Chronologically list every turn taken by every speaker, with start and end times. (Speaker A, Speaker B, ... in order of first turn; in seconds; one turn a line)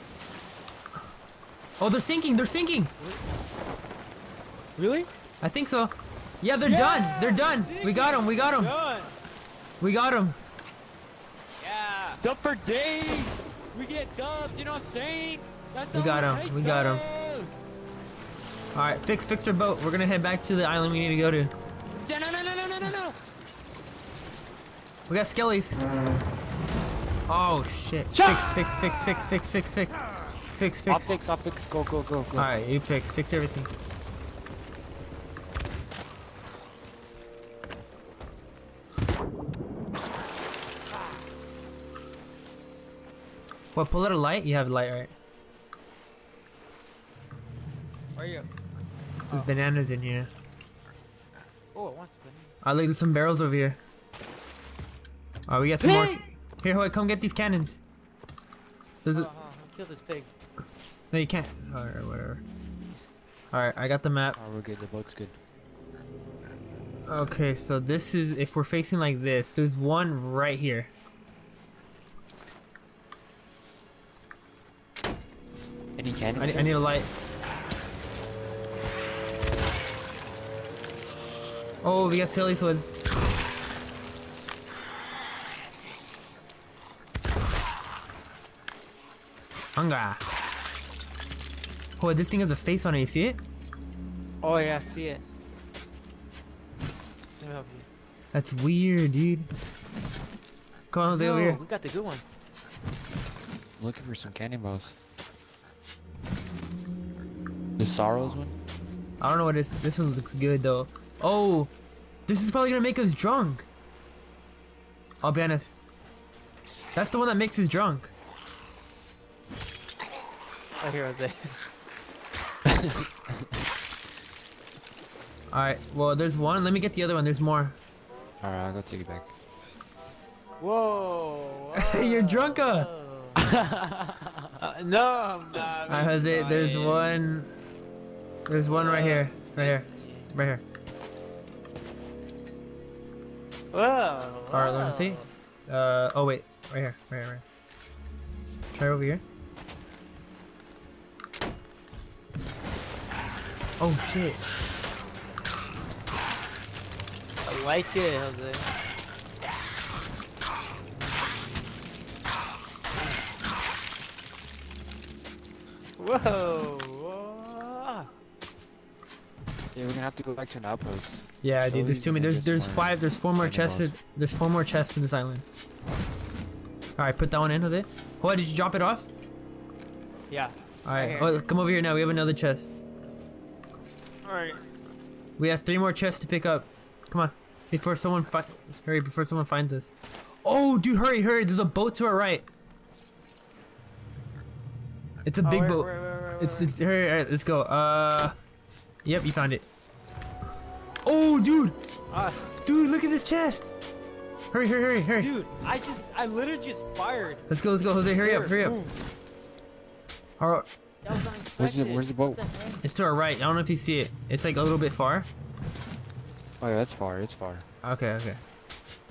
Speaker A: 1.8-2.9
Speaker B: 4.8-5.1
Speaker A: 5.4-8.7
Speaker B: 6.6-9.2
Speaker A: 9.8-10.4
Speaker B: 11.6-12.2
Speaker C: 12.2-17.6
Speaker A: 15.9-17.0
Speaker A: 18.7-21.5
Speaker C: 21.9-23.2
Speaker A: 25.1-25.8
Speaker A: 27.3-30.0
Speaker B: 28.1-29.1
Speaker A: 30.6-31.2
Speaker C: 30.9-32.5
Speaker A: 32.4-33.7
Speaker A: 43.8-45.1
Speaker B: 48.1-48.5
Speaker A: 49.3-50.3
Speaker B: 51.7-52.5
Speaker A: 52.6-53.8
Speaker A: 55.5-57.8
Speaker B: 55.8-56.2
Speaker A: 59.0-59.3
Speaker B: 59.1-60.3
Speaker A: 61.1-62.4
Speaker A: 63.5-64.4
Speaker C: 64.3-65.4
Speaker A: 67.1-70.9
Speaker C: 76.0-76.7
Speaker A: 76.4-77.1
Speaker A: 81.8-82.8
Speaker A: 89.8-90.2
Speaker A: 92.0-93.4
Speaker B: 94.4-95.2
Speaker B: 97.4-97.9
Speaker A: 98.3-99.5
Speaker A: 100.9-101.6
Speaker B: 101.1-102.2
Speaker C: 103.8-105.0
Speaker C: 107.8-108.6
Speaker A: 109.2-111.7
Speaker A: 112.3-113.7
Speaker A: 115.2-115.7
Speaker A: 117.0-118.1
Speaker B: 120.8-121.7
Speaker C: 122.7-123.1
Speaker A: 125.5-127.8
Speaker C: 128.4-129.3
Speaker B: 130.6-133.4
Speaker A: 131.7-132.9
Speaker C: 133.4-134.6
Speaker B: 134.6-137.1
Speaker A: 135.9-137.5
Speaker A: 138.5-140.6
Speaker B: 138.7-140.1
Speaker B: 143.7-145.3
Speaker A: 144.5-147.4
Speaker A: 148.7-149.2
Speaker A: 153.8-154.4
Speaker B: 157.4-158.7
Speaker B: 166.0-168.1
Speaker C: 169.7-173.9
Speaker A: 171.4-175.4
Speaker A: 177.0-179.1
Speaker B: 180.3-181.3
Speaker A: 180.8-182.8
Speaker B: 184.2-184.6
Speaker A: 185.4-192.4
Speaker A: 195.3-198.3
Speaker B: 195.4-196.7
Speaker A: 199.1-199.7
Speaker A: 201.0-201.8
Speaker B: 202.1-202.5
Speaker A: 202.6-203.7
Speaker A: 204.5-205.3
Speaker B: 205.2-207.4
Speaker A: 207.5-208.8
Speaker B: 208.1-208.9
Speaker A: 210.4-210.7
Speaker B: 211.0-212.8
Speaker C: 211.6-212.5
Speaker A: 212.8-215.3
Speaker C: 216.6-217.7
Speaker A: 217.8-218.4